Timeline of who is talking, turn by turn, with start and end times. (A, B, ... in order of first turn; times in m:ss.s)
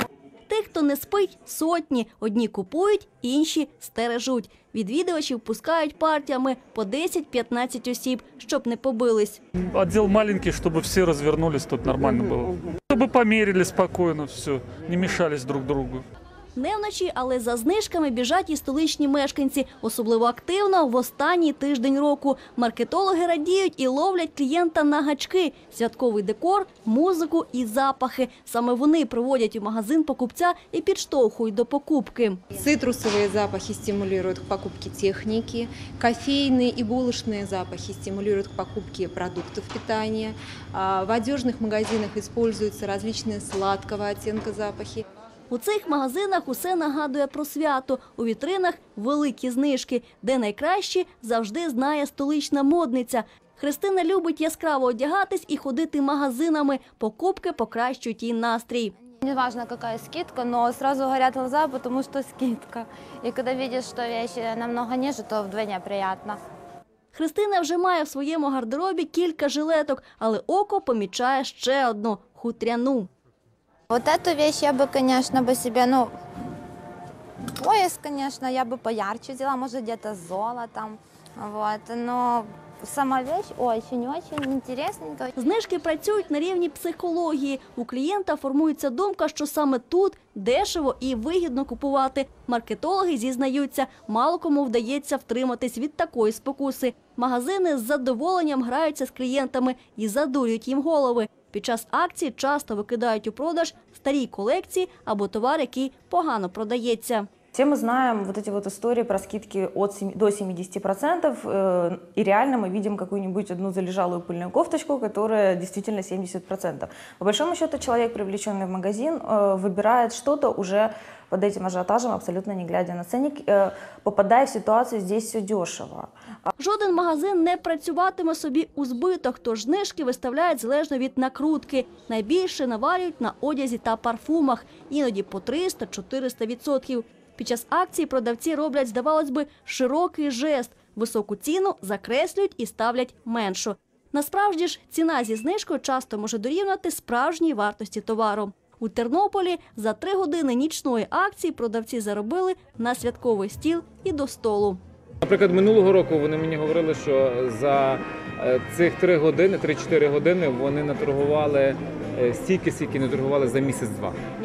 0:00.5-0:09.4 A
0:09.7-0:16.0 B
0:16.5-0:32.4 A
0:32.6-0:45.0 C
0:45.5-0:58.9 A
0:59.2-1:06.4 D
1:07.1-1:13.1 A
1:13.9-1:16.1 D
1:17.6-1:25.3 D
1:25.4-1:47.3 A
1:47.5-2:06.5 E
2:06.6-2:34.8 A
2:35.2-2:44.2 F